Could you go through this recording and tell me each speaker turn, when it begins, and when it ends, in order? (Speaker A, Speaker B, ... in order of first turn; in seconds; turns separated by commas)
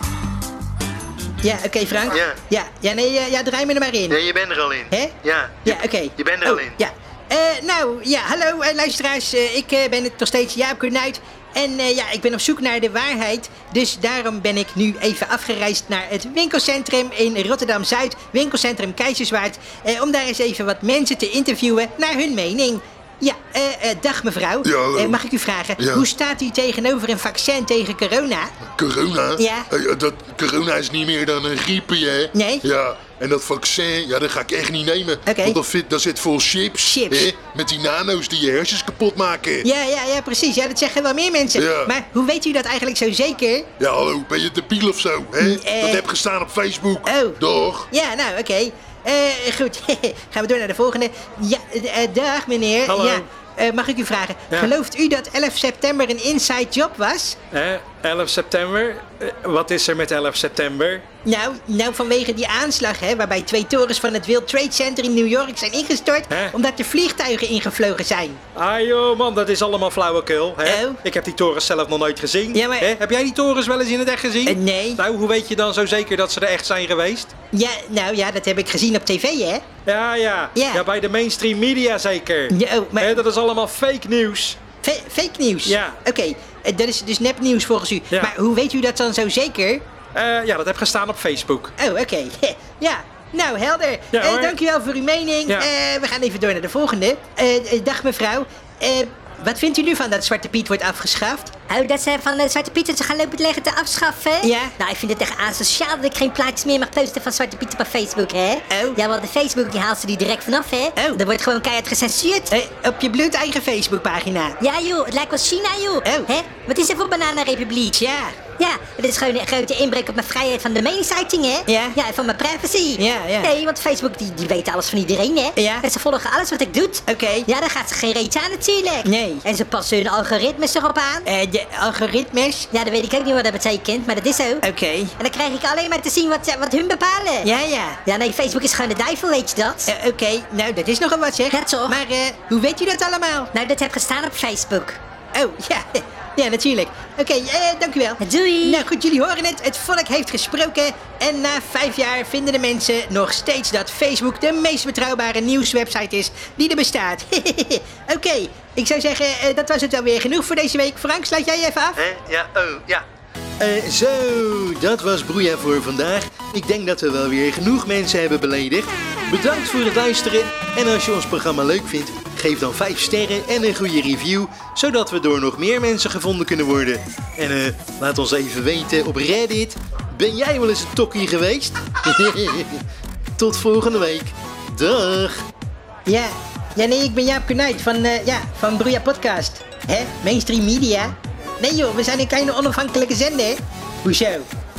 Speaker A: 1.4-4.2, Speaker B: 2.1-2.4, Speaker B: 4.1-6.8, Speaker A: 5.6-28.5, Speaker C: 24.6-25.2, Speaker C: 25.8-26.1, Speaker C: 28.7-39.7, Speaker A: 29.4-29.7, Speaker A: 32.3-32.6, Speaker A: 35.3-35.6, Speaker A: 36.8-37.3, Speaker A: 39.6-43.7, Speaker C: 41.5-41.9, Speaker C: 43.8-47.9, Speaker A: 45.4-46.0, Speaker A: 47.0-47.4, Speaker A: 47.9-57.4, Speaker D: 52.9-53.3, Speaker D: 57.5-61.0, Speaker A: 61.2-68.4, Speaker D: 66.3-66.5, Speaker D: 68.5-77.3, Speaker A: 70.6-71.0, Speaker A: 72.5-72.9, Speaker A: 74.5-75.0, Speaker A: 77.5-79.6, Speaker D: 79.8-84.6, Speaker A: 80.5-80.8, Speaker A: 82.5-83.2, Speaker A: 84.8-89.8, Speaker D: 85.6-86.0, Speaker D: 90.1-91.7, Speaker A: 91.8-101.7, Speaker D: 94.1-94.6, Speaker E: 101.7-112.5, Speaker A: 104.4-104.8, Speaker A: 108.7-109.0, Speaker A: 111.0-111.2, Speaker A: 112.5-114.6, Speaker E: 114.6-131.3, Speaker A: 116.0-116.3, Speaker A: 117.9-118.5, Speaker A: 121.7-122.0, Speaker A: 123.0-123.5, Speaker A: 125.5-125.8, Speaker A: 127.1-127.5, Speaker A: 129.0-129.4, Speaker A: 131.2-132.7, Speaker E: 132.7-134.6, Speaker A: 134.6-135.1, Speaker E: 135.2-137.5, Speaker A: 137.4-138.0, Speaker E: 138.0-139.9, Speaker A: 139.8-143.5, Speaker E: 141.5-142.0, Speaker E: 143.5-145.0, Speaker A: 145.3-162.0, Speaker E: 148.2-148.8, Speaker B: 161.9-163.0, Speaker B: 163.6-182.8, Speaker B: 183.4-185.4, Speaker A: 186.1-194.5